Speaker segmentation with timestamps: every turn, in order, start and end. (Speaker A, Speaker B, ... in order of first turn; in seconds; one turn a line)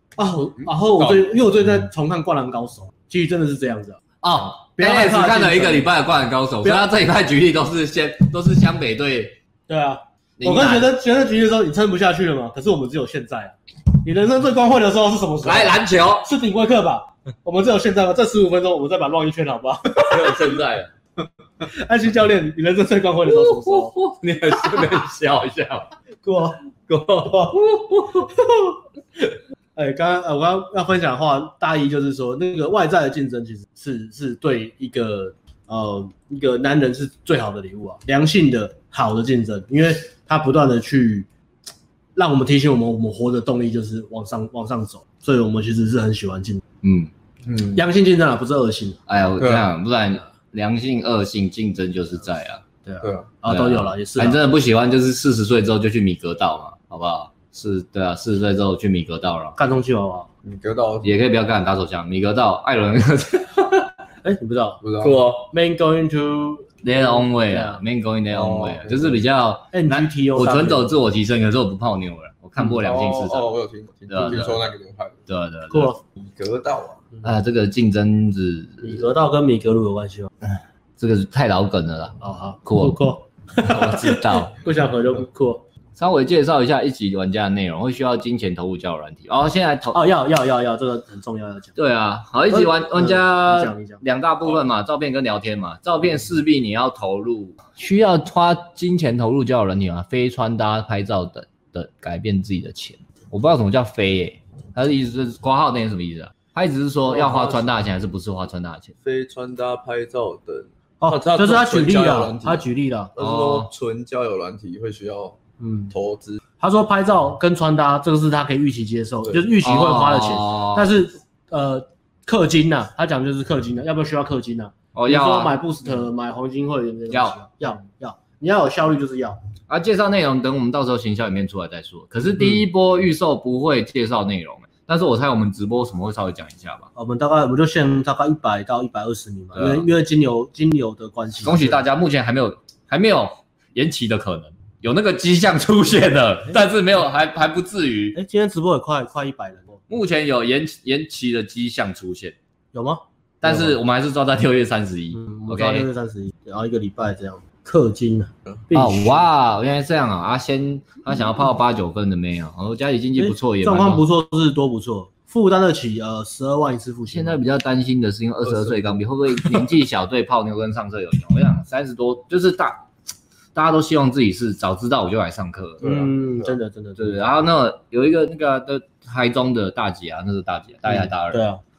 Speaker A: 0.2-4.0
Speaker B: 0.7-1.3
Speaker C: 4.2-9.4
Speaker A: 4.8-5.9
Speaker A: 9.7-20.6
Speaker C: 10.4-10.9
Speaker C: 15.4-16.3
Speaker C: 20.0-20.9
Speaker A: 21.6-23.9
Speaker C: 23.3-25.9
Speaker A: 26.2-28.4
Speaker C: 26.9-28.1
Speaker A: 29.8-41.3
Speaker A: 42.1-46.6
Speaker C: 46.8-47.1
Speaker B: 47.5-47.8
Speaker A: 47.8-49.0
Speaker C: 49.1-52.6
Speaker B: 49.4-49.7
Speaker A: 52.9-54.4
Speaker B: 53.0-53.3
Speaker C: 53.5-59.6
Speaker A: 59.6-60.3
Speaker B: 60.5-61.1
Speaker C: 61.0-63.9
Speaker A: 64.2-64.8
Speaker B: 64.8-65.2
Speaker C: 65.0-65.5
Speaker A: 65.5-67.8
Speaker C: 66.8-73.5
Speaker B: 68.3-69.1
Speaker A: 69.7-70.9
Speaker B: 72.6-75.2
Speaker C: 74.1-74.5
Speaker C: 75.3-76.0
Speaker A: 75.7-76.0
Speaker B: 76.2-77.0
Speaker C: 77.2-79.0
Speaker A: 78.8-80.3
Speaker C: 80.4-83.0
Speaker A: 82.2-85.7
Speaker C: 83.6-84.6
Speaker C: 86.0-90.0
Speaker A: 89.9-91.7
Speaker C: 91.8-108.9
Speaker A: 92.5-94.0
Speaker B: 107.1-107.6
Speaker B: 109.0-112.7
Speaker A: 111.0-113.1
Speaker B: 113.2-115.4
Speaker C: 113.2-113.7
Speaker A: 115.6-115.9
Speaker B: 115.9-116.4
Speaker A: 116.6-129.4
Speaker C: 119.6-120.9
Speaker C: 124.9-125.5
Speaker C: 127.1-127.4
Speaker C: 129.7-136.9
Speaker A: 137.0-141.8
Speaker C: 139.5-139.9
Speaker C: 141.4-148.2
Speaker A: 148.2-149.8
Speaker C: 149.9-152.4
Speaker A: 152.7-153.8
Speaker C: 153.4-155.9
Speaker A: 155.1-159.2
Speaker C: 158.7-164.0
Speaker A: 163.2-167.4
Speaker C: 167.1-172.8
Speaker B: 168.5-168.9
Speaker C: 173.6-175.8
Speaker B: 175.8-176.5
Speaker A: 175.8-177.2
Speaker C: 177.0-181.4
Speaker A: 180.9-181.6